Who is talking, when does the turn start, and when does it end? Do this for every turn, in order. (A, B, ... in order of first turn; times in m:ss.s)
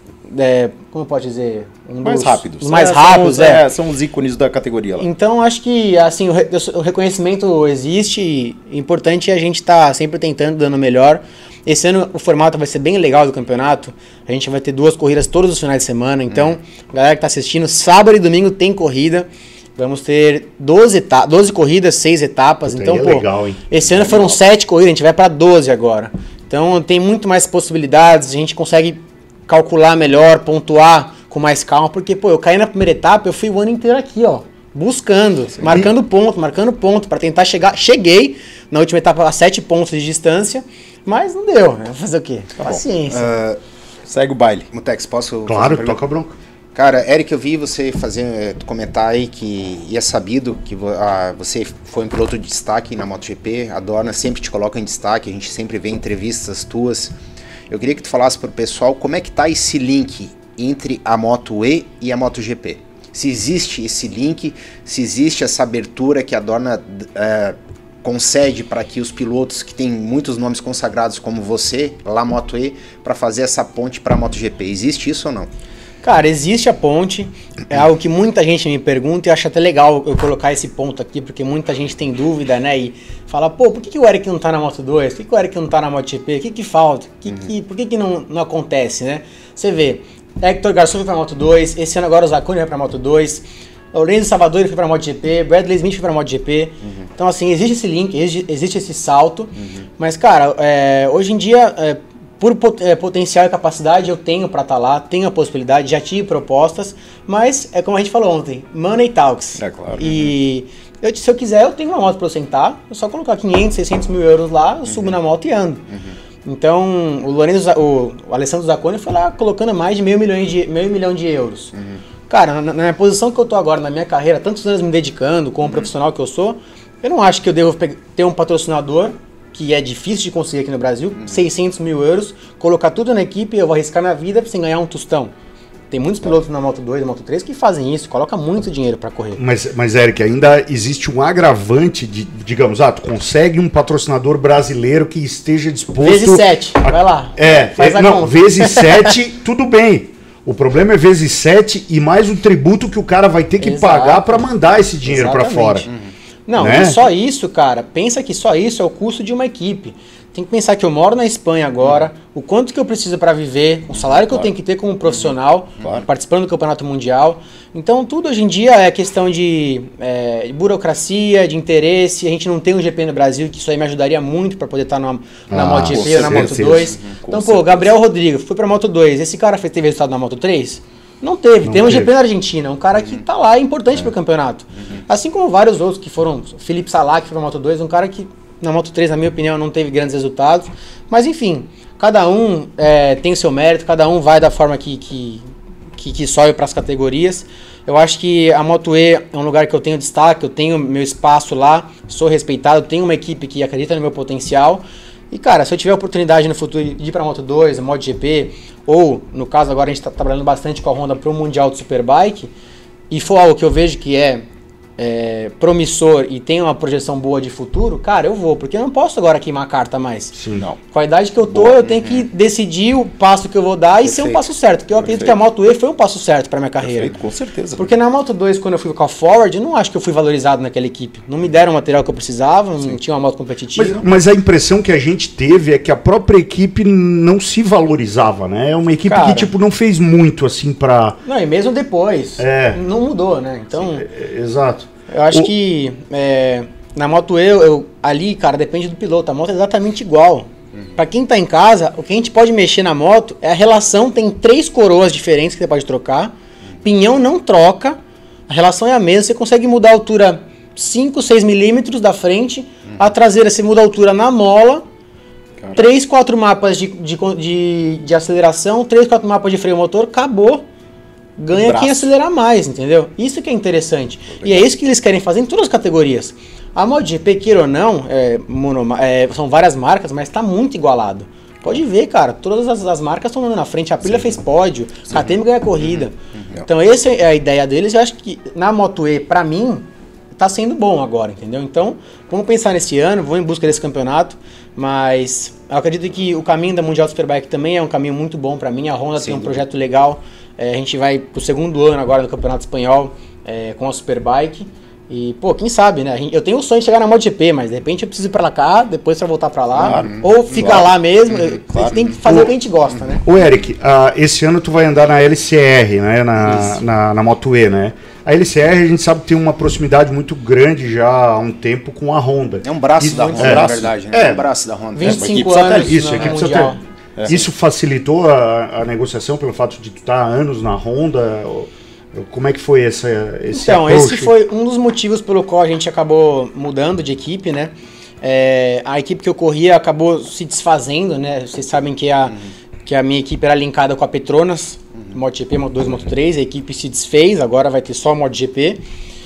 0:00.3-0:03.6 A
0:02.0-0:05.0 B
0:05.0-0:43.3 A
0:22.7-0:23.6 C
0:23.9-0:24.3 B
0:35.6-0:35.9 C
0:43.1-0:43.6 D
0:44.1-0:44.7 B
0:44.7-0:46.0 D
0:45.4-0:46.4 C
0:46.7-0:57.1 D
0:57.7-1:15.5 D
1:16.0-1:55.8 A
1:49.6-1:50.3 B
1:54.9-1:55.1 D
1:55.9-1:56.2 D
1:56.4-2:01.7 A
2:01.7-2:02.0 D
2:02.3-2:15.3 A
2:15.9-2:19.4 A
2:19.4-2:35.9 C
2:26.0-2:29.2 A
2:33.6-2:34.5 A
2:35.0-2:35.9 A
2:36.5-3:15.4 A
2:36.6-2:37.0 C
2:55.5-2:56.9 C
2:55.8-2:57.9 B
3:01.6-3:02.1 C
3:16.0-3:32.5 A
3:33.1-3:34.4 A
3:35.0-3:40.4 A
3:40.3-3:40.6 C
3:40.9-3:47.1 A
3:41.6-3:42.3 D
3:44.0-3:44.4 D
3:45.1-3:45.3 B
3:46.8-3:47.9 B
3:47.8-3:54.0 A
3:53.8-4:01.2 C
3:59.0-3:59.5 A
4:01.2-4:04.1 A
4:02.4-4:02.8 C
4:03.8-4:05.5 C
4:05.1-4:24.8 A
4:25.7-4:30.6 A
4:31.4-4:46.1 A
4:31.5-4:32.1 B
4:34.4-4:34.6 B
4:46.7-5:13.2 A
4:59.2-4:59.6 D
5:09.8-5:12.0 B
5:09.8-5:10.8 D
5:12.2-5:12.5 C
5:13.2-5:24.4 C
5:16.4-5:16.8 B
5:22.6-5:25.3 D
5:23.0-5:23.9 B
5:24.9-5:26.8 A
5:25.0-5:26.4 B
5:25.6-5:34.3 C
5:27.2-5:27.5 B
5:33.5-5:48.8 A